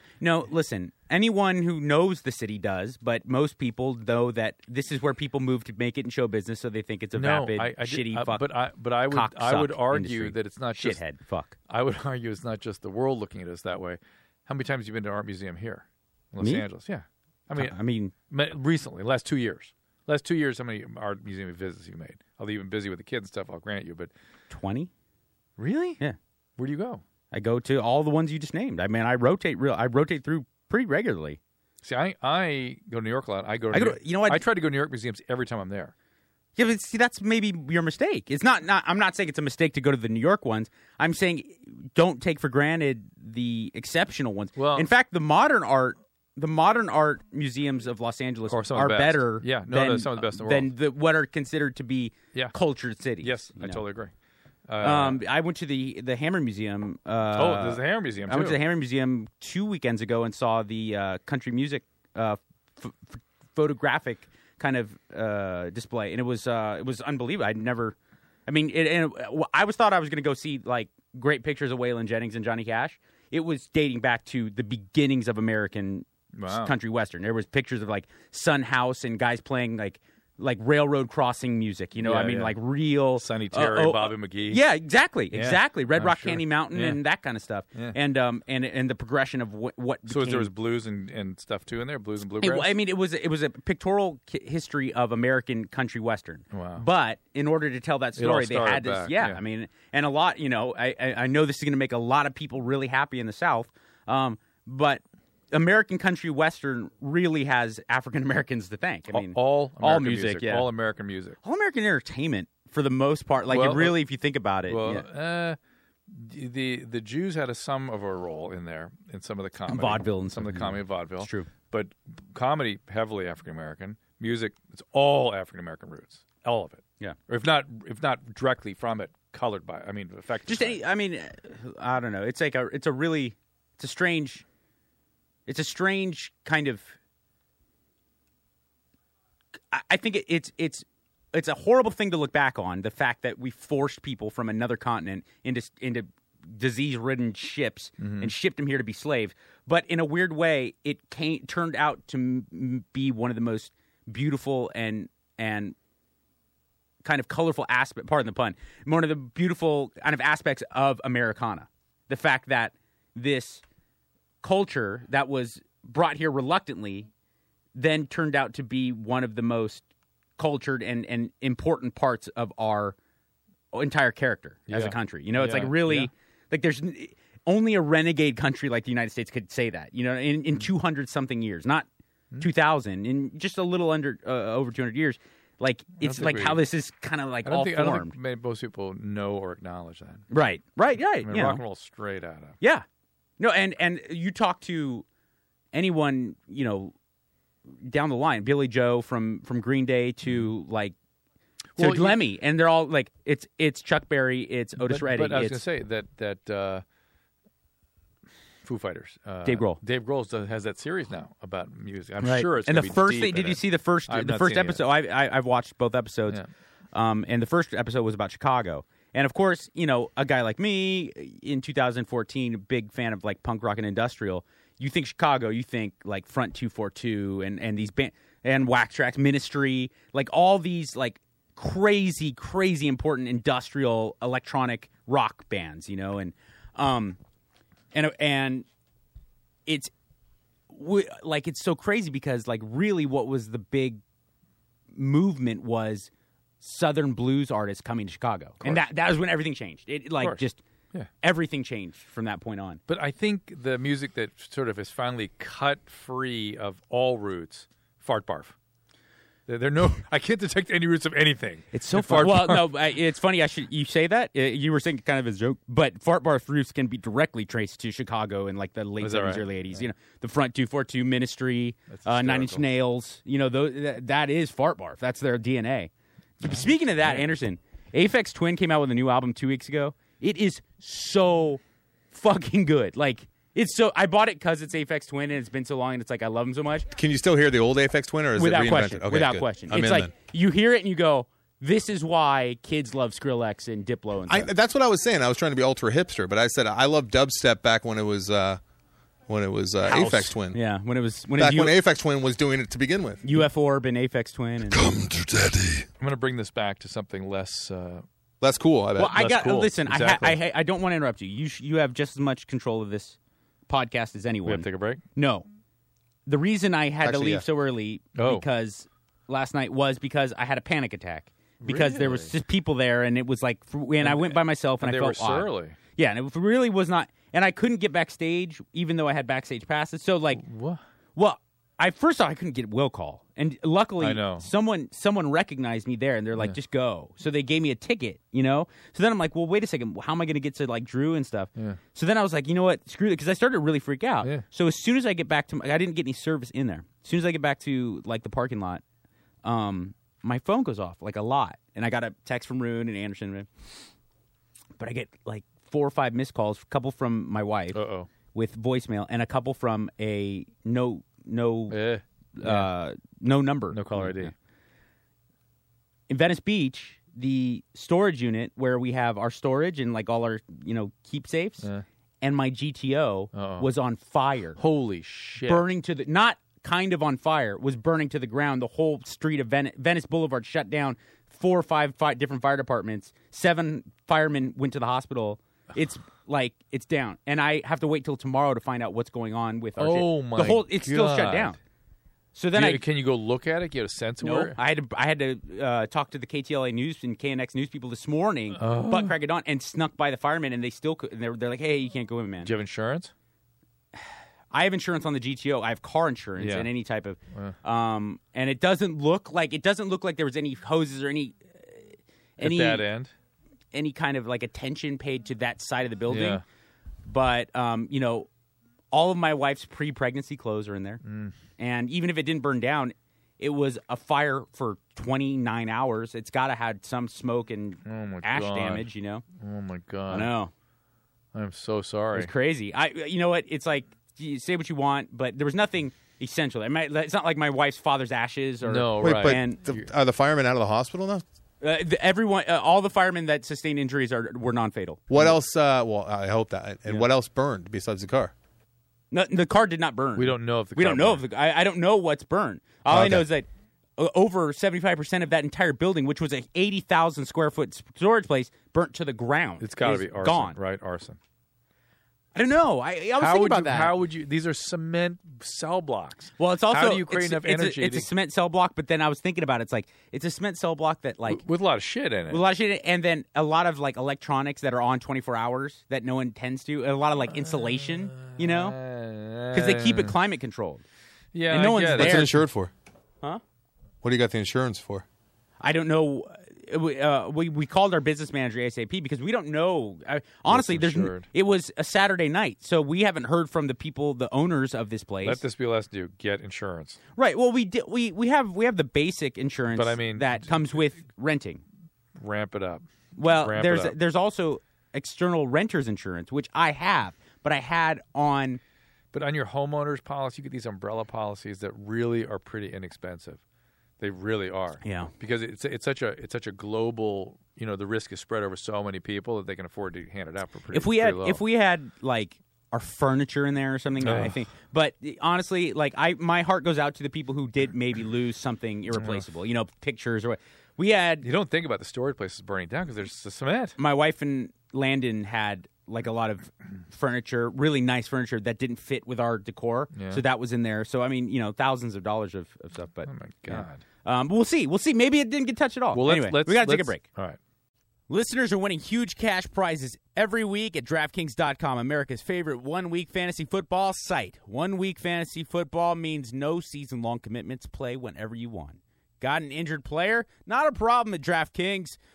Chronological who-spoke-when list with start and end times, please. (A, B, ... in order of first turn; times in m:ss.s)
0:00.2-0:08.5 A
0:07.1-0:11.0 B
0:09.1-0:11.5 A
0:11.7-0:17.8 B
0:17.5-0:18.1 A
0:18.3-0:24.1 B
0:24.5-0:24.9 A
0:25.6-0:26.0 B
0:26.6-0:27.0 B
0:27.3-0:31.4 A
0:31.8-0:35.9 B
0:33.7-0:34.4 A
0:36.6-0:53.8 A
0:44.6-0:44.9 B
0:48.5-0:50.7 B
0:53.2-0:54.1 B
0:54.7-0:55.2 B
0:54.8-1:08.0 A
0:57.3-0:58.6 B
1:08.5-1:30.5 A
1:16.3-1:16.7 B
1:22.0-1:22.6 B
1:23.2-1:24.6 B
1:25.3-1:27.0 B
1:30.1-1:32.7 B
1:32.4-1:50.7 A
1:36.5-1:36.8 B
1:38.2-1:39.4 B
1:49.1-1:51.4 B
1:51.4-1:55.0 A
1:53.5-1:54.0 B
1:54.7-2:10.8 B
1:59.7-2:01.5 A
2:10.5-2:14.4 A
2:15.5-2:16.9 A
2:19.7-2:35.8 A
2:28.0-2:28.3 B
2:37.0-2:43.6 A
2:44.4-2:47.1 A
2:47.7-2:49.8 A
2:50.4-2:53.0 A
2:53.7-3:01.8 A
2:54.7-2:56.1 B
3:02.4-3:08.1 A
3:06.0-3:06.6 B
3:07.4-3:10.3 B
3:10.3-3:11.6 A
3:11.2-3:12.6 B
3:13.4-3:15.0 A
3:15.7-3:16.9 A
3:17.8-3:20.9 A
3:21.8-3:22.2 B
3:21.8-3:25.6 A
3:24.8-3:26.8 B
3:28.6-3:34.8 B
3:29.4-3:29.8 A
3:32.2-3:36.4 A
3:36.9-3:57.2 A
3:57.9-3:58.6 A
3:59.6-3:59.9 A
4:00.7-4:04.0 A
4:04.9-4:06.1 A
4:06.6-4:10.6 A
4:10.2-4:11.1 B
4:11.2-4:12.8 A
4:12.9-4:18.5 B
4:19.5-4:22.7 B
4:21.7-4:41.6 A
4:29.0-4:29.5 B
4:31.9-4:32.6 B
4:36.5-4:37.3 B
4:42.1-4:46.9 A
4:46.9-4:50.1 C
4:48.4-4:54.5 A
4:54.3-4:58.6 C
4:59.3-5:00.6 C
4:59.8-5:01.7 A
5:01.4-5:03.2 C
5:03.2-5:04.9 A
5:04.8-5:05.8 C
5:06.0-5:08.0 B
5:08.4-5:09.1 C
5:09.0-5:13.2 A
5:09.0-5:10.4 B
5:13.7-5:15.4 A
5:14.4-5:15.0 B
5:16.2-5:30.4 A
5:17.0-5:17.4 C
5:18.1-5:18.4 B
5:21.6-5:22.3 B
5:24.0-5:25.8 B
5:30.3-5:30.8 B
5:31.2-5:48.8 A
5:34.0-5:34.5 B
5:49.4-5:53.5 A
5:54.8-5:57.8 A
5:57.7-5:58.1 B
5:58.3-6:01.8 A
6:01.7-6:02.7 B
6:02.4-6:04.3 A
6:03.7-6:04.3 B
6:06.1-6:11.7 A
6:12.2-6:14.6 A
6:13.3-6:13.7 B
6:14.6-6:15.7 B
6:15.4-6:31.6 A
6:29.8-6:31.6 B
6:32.3-6:32.8 A
6:32.5-6:34.6 B
6:34.2-6:42.5 A
6:38.6-6:39.1 B
6:42.4-6:43.1 B
6:44.0-6:52.8 A
6:46.4-6:46.7 B
6:52.4-6:53.1 B
6:53.7-6:56.4 A
6:56.1-6:56.4 B
6:57.0-6:58.3 A
6:58.9-7:01.0 A
7:01.0-7:01.4 B
7:01.6-7:09.2 A
7:07.8-7:08.9 B
7:09.4-7:10.3 B
7:10.1-7:10.5 A
7:11.3-7:12.3 B
7:12.1-7:19.6 A
7:18.6-7:19.8 B
7:19.0-7:21.2 C
7:21.6-7:25.3 A
7:25.1-7:28.3 C
7:29.1-7:40.6 A
7:30.2-7:31.2 B
7:32.9-7:33.2 C
7:39.6-7:41.2 B
7:42.3-7:43.9 A
7:43.2-7:48.1 B
7:46.4-7:51.4 A
7:51.3-7:52.4 B
7:52.3-7:58.8 A
7:57.3-8:00.1 B
7:59.5-8:00.8 A
8:01.3-8:02.4 B
8:01.5-8:02.4 A
8:01.9-8:02.7 C
8:04.0-8:05.0 C
8:05.6-8:15.4 A
8:10.5-8:11.3 B
8:15.2-8:17.0 B
8:17.2-8:21.6 A
8:19.7-8:20.9 B
8:22.2-8:24.0 B
8:23.2-8:28.6 A
8:29.1-8:33.4 B
8:34.0-8:41.4 B
8:34.8-8:35.1 A
8:40.7-8:51.2 A
8:44.0-8:44.4 B
8:48.9-8:49.2 B
8:51.2-8:53.8 B
8:53.8-9:07.0 A
8:59.9-9:00.2 B
9:03.0-9:03.8 B
9:05.9-9:07.4 B
9:08.1-9:22.0 A